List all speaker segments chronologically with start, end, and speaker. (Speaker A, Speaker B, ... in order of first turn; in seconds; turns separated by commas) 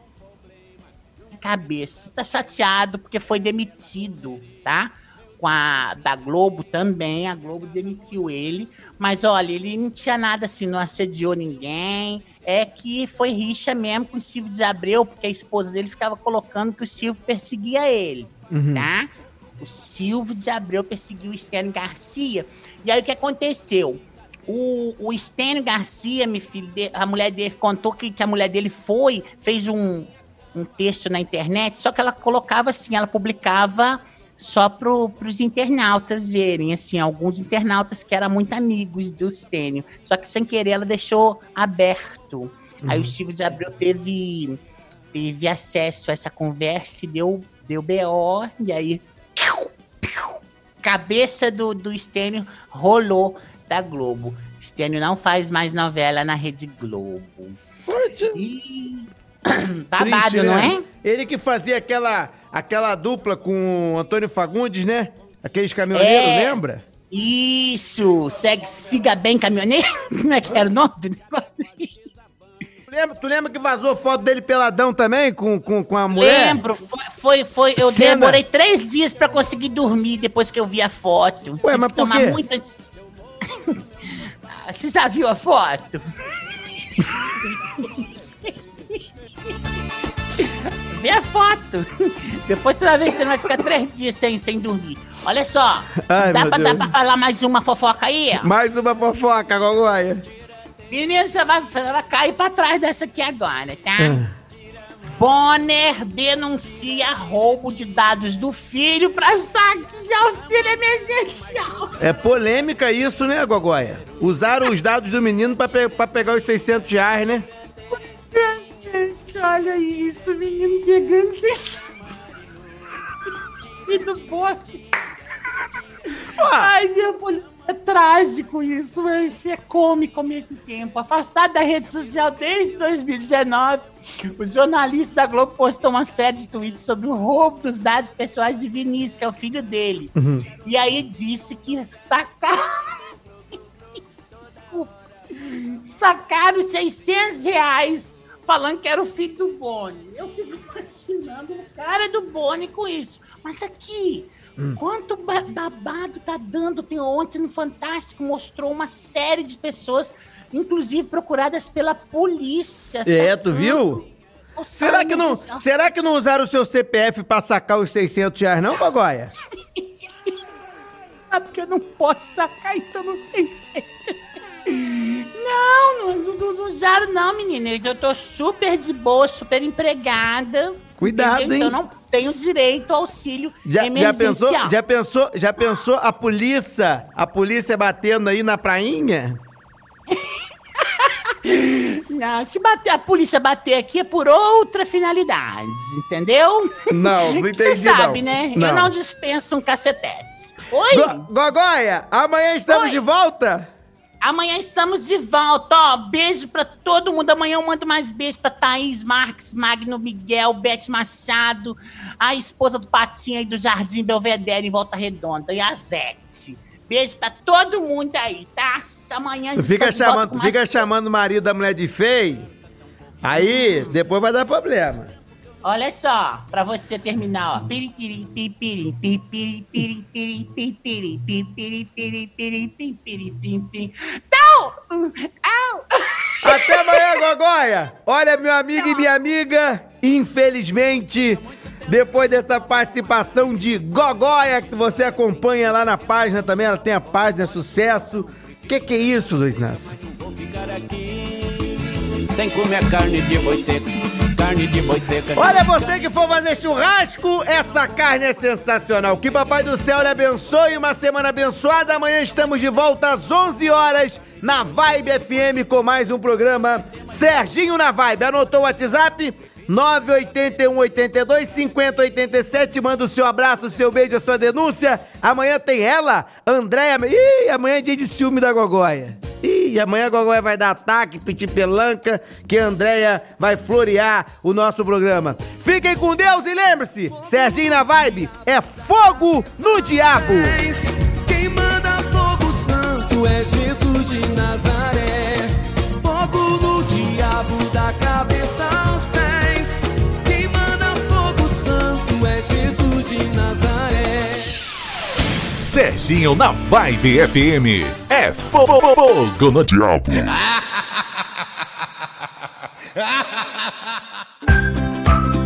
Speaker A: 1.3-44.6, Speaker B: 18.5-18.9, Speaker B: 42.8-43.1, Speaker A: 45.1-57.6, Speaker B: 57.9-58.4, Speaker A: 58.3-60.8, Speaker B: 60.0-66.8, Speaker A: 65.9-66.6, Speaker A: 67.1-72.0, Speaker B: 72.9-76.6, Speaker A: 76.1-82.7, Speaker B: 77.8-78.4, Speaker B: 81.6-82.4, Speaker A: 84.5-86.0, Speaker A: 90.4-91.9, Speaker A: 92.4-98.5, Speaker B: 96.0-96.9, Speaker B: 98.3-100.2, Speaker A: 100.9-104.2, Speaker B: 104.0-104.3, Speaker A: 105.2-111.9, Speaker B: 112.0-117.5, Speaker A: 118.3-121.9, Speaker A: 123.8-124.8, Speaker B: 126.4-126.7, Speaker A: 126.5-140.1, Speaker B: 140.2-140.5, Speaker A: 140.6-142.6, Speaker A: 144.4-164.0, Speaker B: 163.0-164.0, Speaker A: 164.6-165.6, Speaker B: 164.7-169.3, Speaker A: 171.3-184.7, Speaker B: 181.0-181.8, Speaker B: 183.6-189.4, Speaker A: 190.1-201.2, Speaker B: 196.9-198.9, Speaker B: 200.9-203.7, Speaker A: 202.7-203.0, Speaker A: 204.2-220.8, Speaker B: 219.5-222.5, Speaker B: 223.2-225.1, Speaker A: 223.3-223.9, Speaker A: 225.6-237.2, Speaker B: 236.4-250.0, Speaker C: 250.2-251.8, Speaker C: 252.3-255.7, Speaker B: 255.3-290.6, Speaker D: 290.2-304.6, Speaker E: 305.6-310.4